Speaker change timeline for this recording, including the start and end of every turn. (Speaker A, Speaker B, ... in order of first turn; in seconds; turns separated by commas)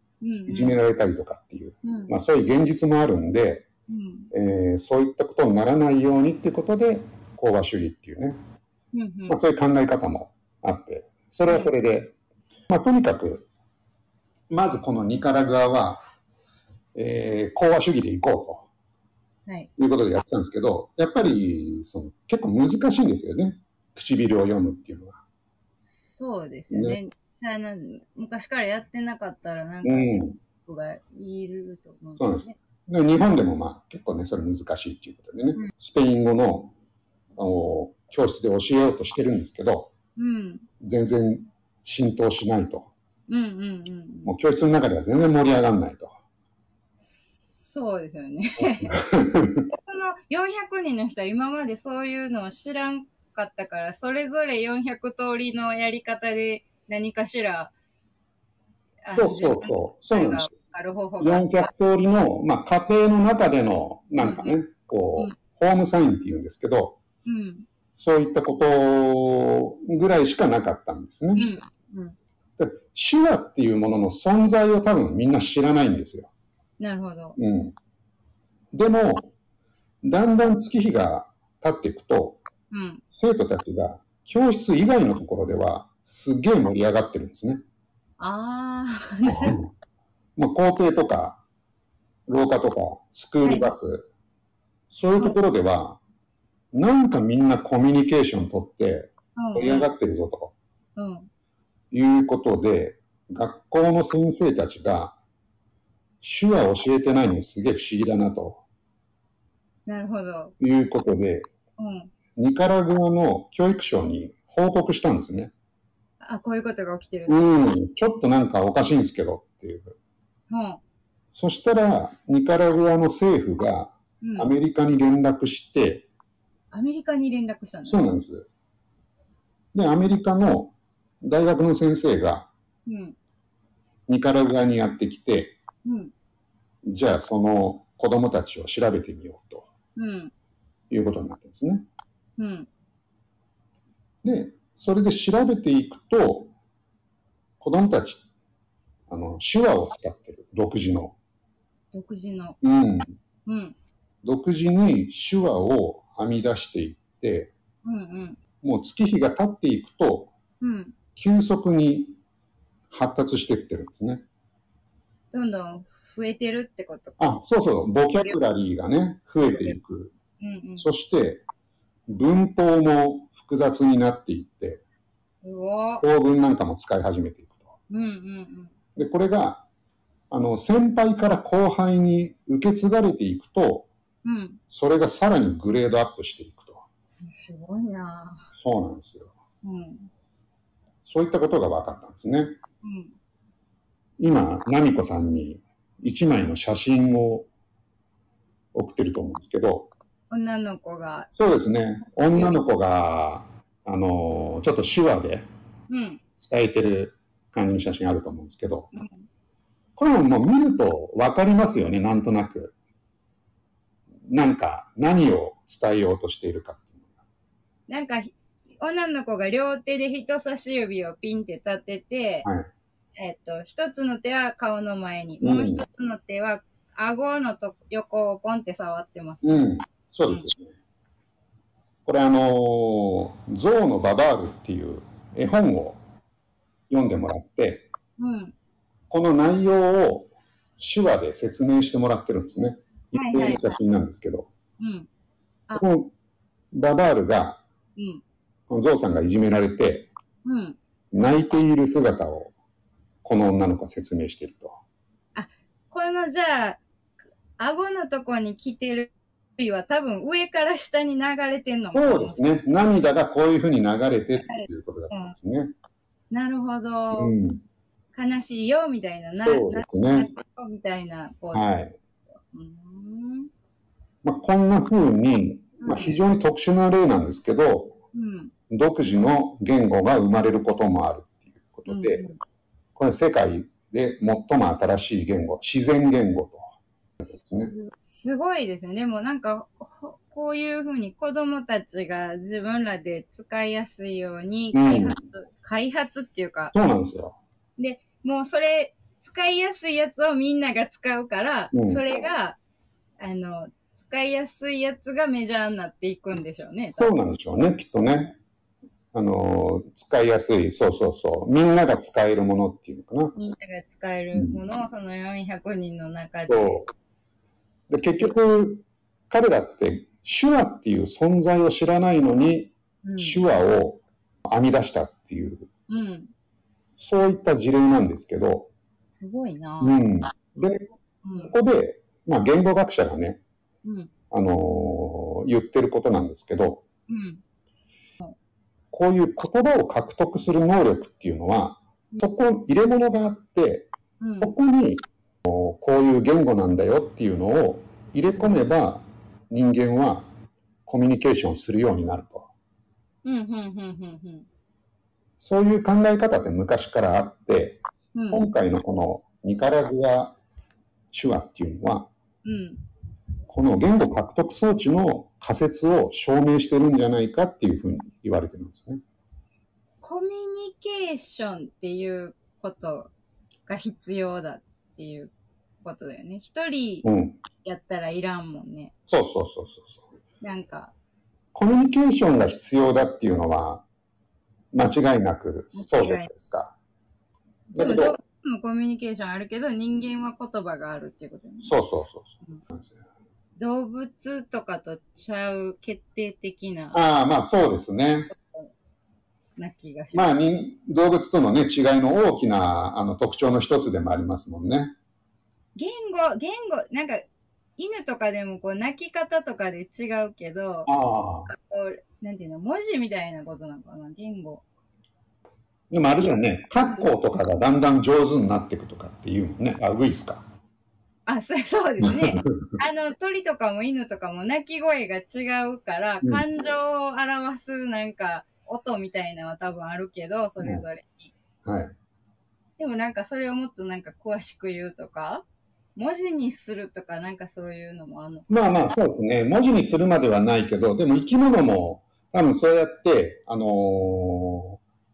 Speaker A: 0.2-0.8, Speaker B: 0.5-3.7, Speaker A: 1.8-2.1, Speaker A: 3.9-4.3, Speaker B: 4.3-8.4, Speaker A: 8.9-9.4, Speaker B: 9.3-12.1, Speaker B: 12.7-13.5, Speaker B: 14.5-16.0, Speaker B: 16.9-18.7, Speaker B: 19.8-25.2, Speaker A: 25.8-32.5, Speaker B: 26.7-27.0, Speaker B: 29.8-30.4, Speaker B: 32.2-36.7, Speaker B: 37.4-39.9, Speaker A: 40.2-40.7, Speaker B: 40.8-42.9, Speaker A: 43.3-44.3, Speaker B: 44.2-46.1, Speaker A: 47.0-49.0, Speaker B: 48.6-49.7, Speaker A: 49.7-57.7, Speaker A: 59.0-61.7, Speaker B: 59.1-60.5, Speaker B: 61.2-67.0, Speaker A: 64.2-64.6, Speaker A: 67.2-67.7, Speaker B: 67.9-71.5, Speaker A: 71.3-72.1, Speaker B: 72.6-76.3, Speaker A: 76.8-77.4, Speaker B: 77.4-77.7, Speaker B: 78.7-79.3, Speaker B: 80.0-82.4, Speaker A: 82.7-83.0, Speaker B: 83.1-87.6, Speaker A: 88.2-89.6, Speaker B: 89.3-89.7, Speaker B: 90.3-91.4, Speaker B: 92.3-94.1, Speaker A: 93.4-93.7, Speaker B: 94.9-96.0, Speaker B: 96.7-100.5, Speaker A: 99.3-99.9, Speaker A: 101.0-101.3, Speaker B: 101.9-105.2, Speaker B: 106.2-108.6, Speaker A: 109.9-110.5, Speaker B: 110.6-111.5, Speaker A: 111.8-112.1, Speaker B: 112.3-115.5, Speaker A: 116.2-117.6, Speaker B: 117.3-119.9, Speaker A: 120.5-120.8, Speaker B: 121.3-126.1, Speaker A: 124.2-124.5, Speaker A: 126.7-128.1, Speaker B: 127.8-128.5, Speaker B: 129.7-132.5, Speaker A: 132.8-133.2, Speaker B: 134.1-135.6, Speaker A: 135.8-136.1, Speaker B: 136.8-139.7, Speaker A: 139.9-140.3, Speaker B: 140.9-141.8, Speaker A: 142.4-142.7, Speaker B: 144.2-146.5, Speaker B: 147.6-148.2, Speaker B: 149.1-151.2, Speaker A: 151.9-152.6, Speaker B: 152.6-153.1, Speaker A: 153.4-153.8, Speaker B: 154.2-157.5, Speaker A: 157.8-158.4, Speaker B: 158.6-160.3, Speaker A: 160.6-160.9, Speaker B: 161.2-162.2, Speaker B: 162.9-164.2, Speaker A: 165.3-167.3, Speaker B: 167.2-170.1, Speaker A: 169.5-169.8, Speaker A: 170.4-170.9, Speaker B: 170.8-171.4, Speaker B: 172.1-174.8, Speaker A: 175.4-176.0, Speaker B: 176.0-177.7, Speaker A: 177.9-178.7, Speaker B: 178.9-179.7, Speaker B: 180.3-183.9, Speaker A: 184.2-184.6, Speaker B: 184.7-186.8, Speaker A: 187.2-188.5, Speaker B: 188.5-189.3, Speaker A: 189.6-190.1, Speaker B: 191.0-192.5, Speaker A: 192.8-193.1, Speaker B: 194.2-197.5, Speaker B: 198.7-199.9, Speaker A: 200.3-201.3, Speaker B: 201.3-205.5, Speaker A: 205.9-206.2, Speaker B: 206.4-208.9, Speaker B: 210.0-212.7, Speaker B: 214.3-217.1, Speaker A: 217.9-222.5, Speaker A: 223.2-229.7, Speaker B: 225.4-225.8, Speaker B: 229.4-230.7, Speaker B: 232.1-236.0, Speaker B: 236.9-237.9, Speaker A: 238.2-238.5, Speaker B: 239.1-244.5, Speaker A: 243.1-243.8, Speaker A: 244.8-245.1, Speaker B: 245.8-246.1, Speaker B: 246.7-247.6, Speaker A: 248.0-248.2, Speaker B: 248.7-250.1, Speaker A: 250.4-250.8, Speaker B: 251.1-252.5, Speaker B: 253.2-254.8, Speaker A: 255.3-256.8, Speaker A: 257.6-262.4, Speaker B: 261.9-265.7, Speaker A: 264.4-265.3, Speaker A: 266.3-267.3, Speaker B: 267.1-267.6, Speaker A: 268.1-271.9, Speaker B: 269.4-270.3, Speaker B: 271.5-271.9, Speaker A: 272.5-273.5, Speaker B: 274.2-278.0, Speaker A: 275.8-276.1, Speaker A: 278.1-278.5, Speaker B: 278.7-282.2, Speaker A: 281.9-282.4, Speaker B: 282.9-287.7, Speaker A: 287.3-296.7, Speaker B: 294.7-295.2, Speaker B: 296.7-297.4, Speaker A: 297.8-302.6, Speaker B: 301.7-302.0, Speaker A: 303.2-307.1, Speaker B: 307.0-308.4, Speaker B: 309.1-313.3, Speaker A: 313.3-316.9, Speaker B: 314.3-314.6, Speaker B: 316.5-316.9, Speaker B: 317.9-325.7, Speaker A: 323.0-323.4, Speaker A: 325.9-326.3, Speaker B: 327.0-328.7, Speaker A: 329.2-330.0, Speaker B: 329.8-330.9, Speaker A: 331.2-331.5, Speaker B: 331.5-333.4, Speaker A: 333.8-334.1, Speaker B: 334.3-336.8, Speaker A: 337.1-337.4, Speaker B: 338.9-350.3, Speaker A: 344.2-344.5, Speaker B: 350.9-352.5, Speaker A: 353.2-354.5, Speaker B: 355.4-360.4, Speaker A: 358.1-358.5, Speaker B: 361.1-362.1, Speaker A: 362.4-362.8, Speaker B: 363.5-369.0, Speaker A: 370.0-373.1, Speaker A: 373.7-377.1, Speaker B: 377.0-377.4, Speaker A: 377.6-378.9, Speaker B: 379.1-380.0, Speaker A: 380.4-380.9, Speaker B: 381.5-383.8, Speaker B: 384.7-386.7, Speaker A: 385.7-386.3, Speaker B: 387.7-388.1, Speaker A: 387.8-391.7, Speaker B: 391.6-393.0, Speaker A: 393.6-397.0, Speaker B: 396.9-398.3, Speaker A: 399.6-400.4, Speaker B: 400.1-404.9, Speaker A: 405.8-407.2, Speaker A: 407.8-410.9, Speaker B: 410.9-411.5, Speaker A: 411.5-414.6, Speaker B: 415.9-420.4, Speaker A: 421.3-431.3, Speaker B: 422.0-422.6, Speaker B: 430.6-430.8, Speaker B: 431.6-431.9, Speaker A: 432.8-435.4, Speaker A: 435.9-438.5, Speaker B: 438.5-444.8